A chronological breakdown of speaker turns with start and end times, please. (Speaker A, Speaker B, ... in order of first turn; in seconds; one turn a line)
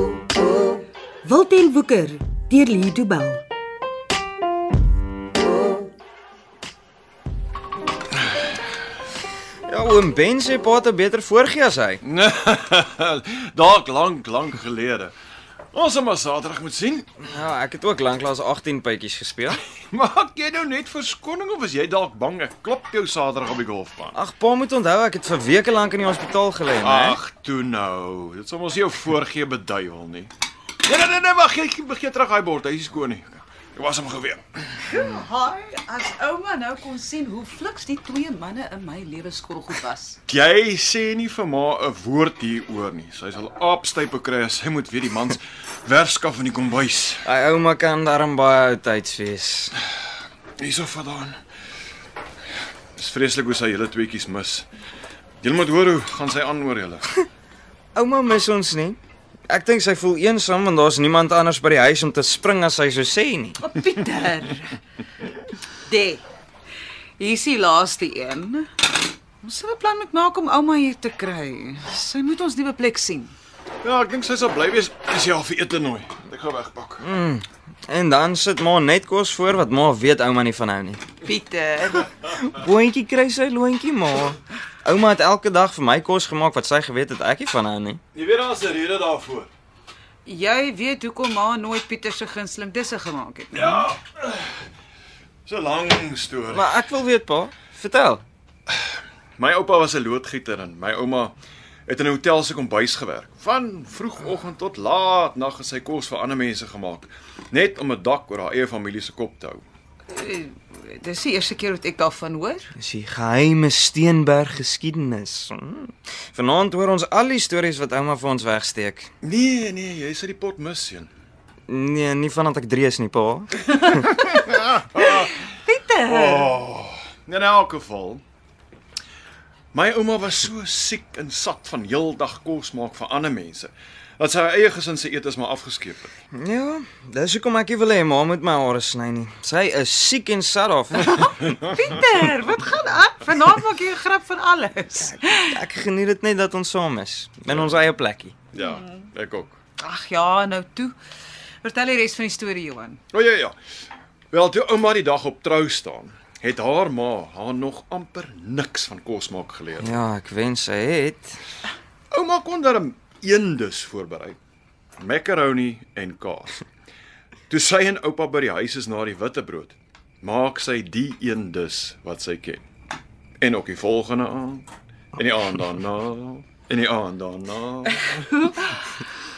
Speaker A: 1.2-3.4
Speaker B: 9.7-12.0
Speaker C: 12.0-15.1
Speaker C: 15.7-17.0
Speaker B: 17.3-19.6
Speaker C: 19.9-24.2
Speaker B: 24.1-27.2
Speaker C: 26.8-30.3
Speaker C: 30.8-34.7
Speaker D: 34.8-40.2
Speaker C: 40.3-47.2
Speaker B: 47.2-49.7
Speaker C: 50.6-51.4
Speaker C: 53.0-54.7
Speaker C: 55.4-57.0
Speaker B: 57.9-63.6
Speaker D: 63.6-64.8
Speaker D: 65.8-66.2
Speaker D: 67.2-68.7
Speaker D: 69.4-73.3
Speaker C: 73.8-77.1
Speaker B: 77.0-81.0
Speaker D: 81.2-82.1
Speaker B: 82.3-88.0
Speaker C: 88.1-89.5
Speaker D: 90.2-93.9
Speaker C: 93.5-94.5
Speaker C: 95.5-96.7
Speaker B: 96.5-98.2
Speaker C: 99.4-101.3
Speaker C: 101.9-109.7
Speaker D: 110.1-112.7
Speaker B: 112.8-119.1
Speaker C: 119.2-121.1
Speaker B: 121.7-123.5
Speaker D: 123.7-124.4
Speaker C: 124.2-125.3
Speaker D: 125.7-126.6
Speaker C: 126.0-128.2
Speaker C: 129.7-136.1
Speaker B: 136.3-141.1
Speaker D: 141.1-145.6
Speaker B: 145.0-148.3
Speaker C: 147.5-147.8
Speaker C: 148.5-149.6
Speaker D: 149.8-150.9
Speaker D: 151.6-153.0
Speaker C: 153.1-153.6
Speaker C: 154.3-160.0
Speaker B: 159.8-161.4
Speaker C: 162.1-164.4
Speaker C: 165.0-166.6
Speaker C: 167.5-172.6
Speaker C: 173.4-178.2
Speaker D: 177.9-178.8